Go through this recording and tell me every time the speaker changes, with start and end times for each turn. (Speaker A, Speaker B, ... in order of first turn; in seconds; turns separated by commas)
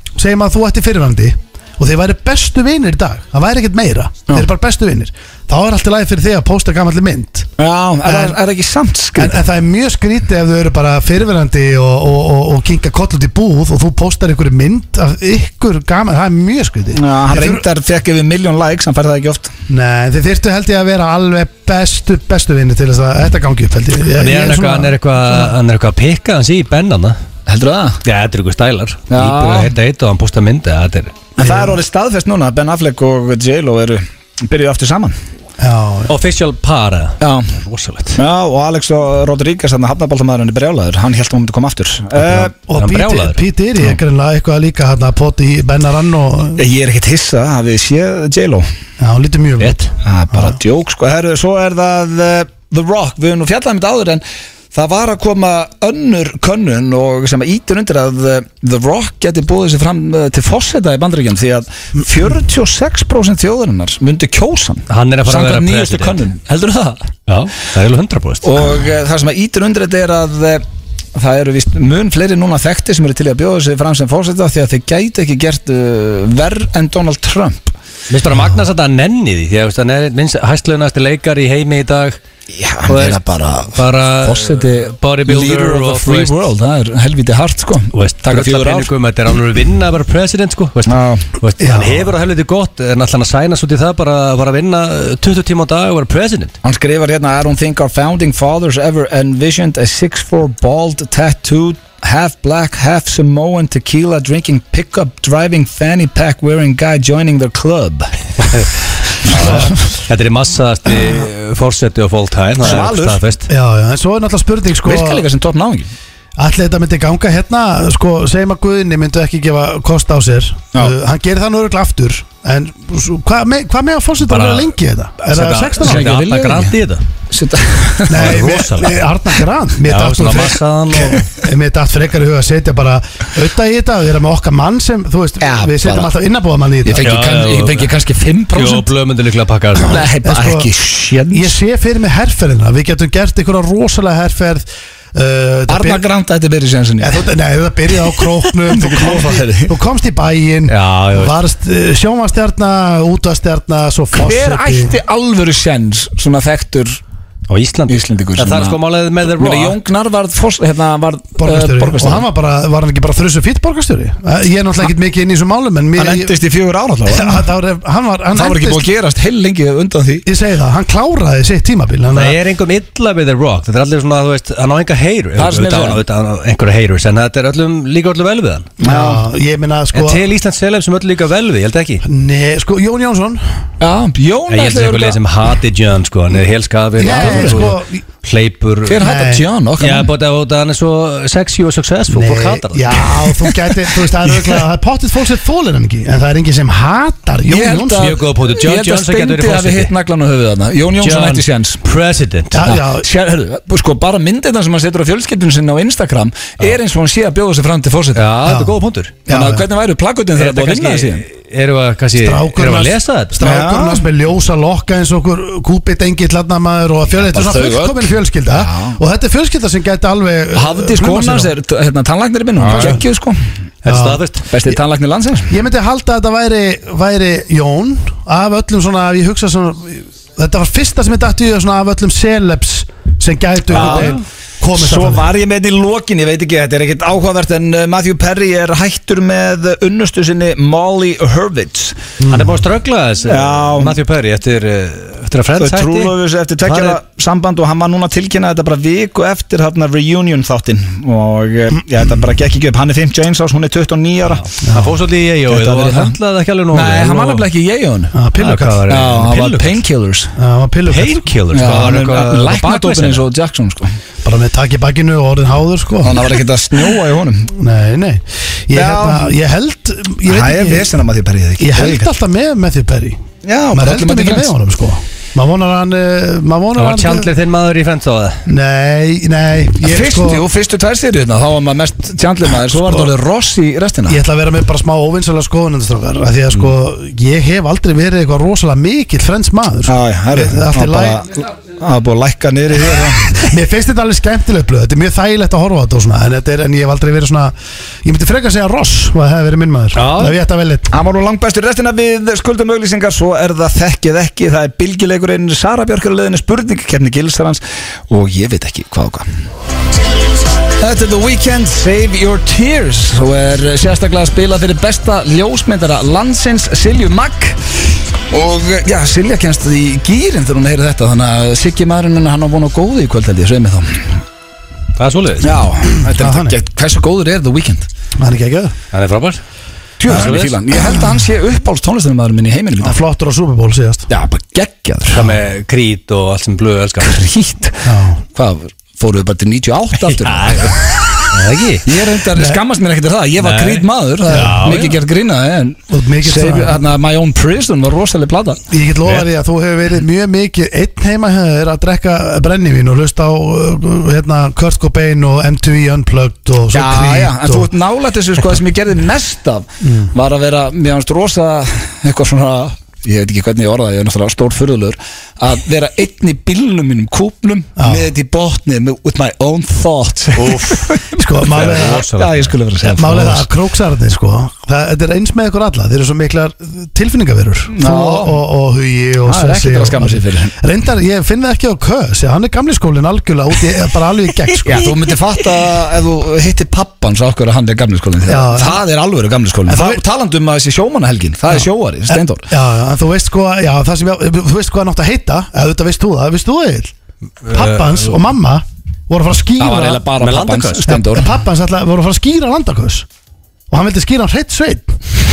Speaker A: 0.2-7.5, Speaker B: 7.6-9.4, Speaker A: 8.0-8.4, Speaker A: 9.2-17.6, Speaker B: 16.9-19.5, Speaker A: 19.7-25.5, Speaker C: 24.1-27.2, Speaker B: 27.5-28.0, Speaker C: 28.0-31.2, Speaker B: 29.1-29.7, Speaker B: 31.4-35.1, Speaker A: 31.4-31.8, Speaker A: 35.6-36.1, Speaker C: 36.1-38.2, Speaker B: 37.2-37.5, Speaker B: 38.1-42.5, Speaker C: 42.2-43.4, Speaker A: 42.5-46.6, Speaker B: 46.6-48.6, Speaker A: 49.0-50.5, Speaker B: 49.9-67.1, Speaker C: 64.9-66.2, Speaker C: 67.3-68.6, Speaker B: 68.4-77.7, Speaker C: 78.1-82.2, Speaker B: 82.5-88.9, Speaker C: 82.9-83.2, Speaker C: 83.7-86.3, Speaker C: 87.9-96.5, Speaker B: 90.9-91.3, Speaker A: 91.6-92.1, Speaker B: 96.6-108.7, Speaker B: 109.2-109.7, Speaker C: 109.3-113.5, Speaker A: 109.3-109.7, Speaker B: 112.6-113.2, Speaker A: 113.5-115.2, Speaker B: 114.8-115.9, Speaker A: 116.4-126.1, Speaker C: 124.2-124.7, Speaker C: 125.2-127.0, Speaker B: 125.8-126.8, Speaker B: 127.3-128.4, Speaker A: 128.1-137.1, Speaker C: 128.1-128.9, Speaker C: 129.8-131.2, Speaker B: 135.4-136.1, Speaker B: 136.8-138.9, Speaker C: 137.0-137.9, Speaker C: 138.5-140.1, Speaker B: 139.8-141.5, Speaker A: 140.2-140.7, Speaker A: 141.3-146.0, Speaker B: 145.7-147.2, Speaker A: 147.0-154.9, Speaker B: 148.5-149.7, Speaker C: 150.7-151.4, Speaker B: 154.1-157.0, Speaker C: 157.5-159.8, Speaker B: 157.9-162.2, Speaker A: 161.4-166.3, Speaker B: 165.9-167.4, Speaker A: 167.1-168.8, Speaker B: 168.3-170.2, Speaker A: 170.2-172.4, Speaker C: 172.1-178.7, Speaker B: 175.4-176.0, Speaker A: 178.8-180.2, Speaker B: 178.8-179.2, Speaker C: 179.9-182.0, Speaker A: 182.0-183.4, Speaker B: 183.8-185.2, Speaker C: 184.5-189.1, Speaker A: 187.0-188.0, Speaker B: 187.1-187.7, Speaker B: 188.8-190.1, Speaker A: 189.0-189.4, Speaker C: 189.8-193.2, Speaker A: 192.1-198.1, Speaker B: 197.5-201.8, Speaker C: 198.0-199.9, Speaker C: 201.0-202.7, Speaker A: 202.5-203.1, Speaker B: 202.6-208.2, Speaker C: 208.1-209.1, Speaker A: 208.4-209.7, Speaker B: 209.3-211.2, Speaker C: 210.3-213.4, Speaker A: 212.2-221.5, Speaker B: 213.4-214.0, Speaker B: 217.2-219.0, Speaker B: 220.5-223.4, Speaker A: 222.6-223.0, Speaker C: 223.8-224.4, Speaker A: 223.8-224.2, Speaker B: 224.4-225.5, Speaker A: 225.5-235.3, Speaker B: 233.7-234.2, Speaker C: 233.7-234.2, Speaker B: 234.7-242.0, Speaker A: 242.2-242.6, Speaker C: 242.3-247.0, Speaker B: 243.2-244.0, Speaker B: 245.6-254.4, Speaker C: 254.3-257.5, Speaker A: 254.6-254.9, Speaker B: 255.5-256.1, Speaker B: 256.7-258.1, Speaker A: 258.1-258.9, Speaker C: 258.4-259.8, Speaker B: 258.9-260.3, Speaker A: 260.4-261.7, Speaker C: 260.9-263.2, Speaker B: 261.5-263.9, Speaker A: 264.2-266.4, Speaker B: 266.0-267.5, Speaker A: 267.5-270.9, Speaker B: 268.7-269.3, Speaker B: 270.2-272.1, Speaker A: 271.6-277.3, Speaker B: 273.4-274.5, Speaker C: 276.8-278.4, Speaker A: 278.5-280.4, Speaker B: 279.8-284.2, Speaker A: 282.6-283.1, Speaker A: 284.1-291.2, Speaker B: 289.9-293.4, Speaker A: 293.3-300.9, Speaker C: 299.9-300.4, Speaker B: 300.9-309.3, Speaker B: 310.8-317.8, Speaker B: 318.3-324.2, Speaker C: 325.0-325.5, Speaker B: 325.4-327.9, Speaker A: 326.2-326.6, Speaker A: 328.2-328.7, Speaker C: 328.9-329.4, Speaker B: 330.0-333.0, Speaker C: 330.1-330.6, Speaker A: 332.8-334.1, Speaker B: 334.1-335.3, Speaker C: 335.1-337.2, Speaker B: 337.0-341.3, Speaker A: 337.8-338.2, Speaker C: 340.0-341.9, Speaker B: 341.8-348.6, Speaker A: 342.3-342.6, Speaker C: 343.4-345.0, Speaker A: 344.3-344.8, Speaker A: 345.9-346.8, Speaker A: 348.7-357.7, Speaker B: 356.7-373.4, Speaker A: 359.8-360.1, Speaker A: 367.8-368.1, Speaker C: 370.4-372.5, Speaker A: 371.2-372.1, Speaker A: 372.9-384.9, Speaker B: 377.7-378.4, Speaker B: 379.2-380.5, Speaker B: 384.6-392.5, Speaker A: 388.2-388.8, Speaker A: 389.7-390.0, Speaker A: 391.5-396.9, Speaker C: 397.4-398.2, Speaker A: 397.5-400.0, Speaker B: 399.6-401.3, Speaker C: 400.2-400.9, Speaker A: 400.9-403.1, Speaker A: 403.7-405.0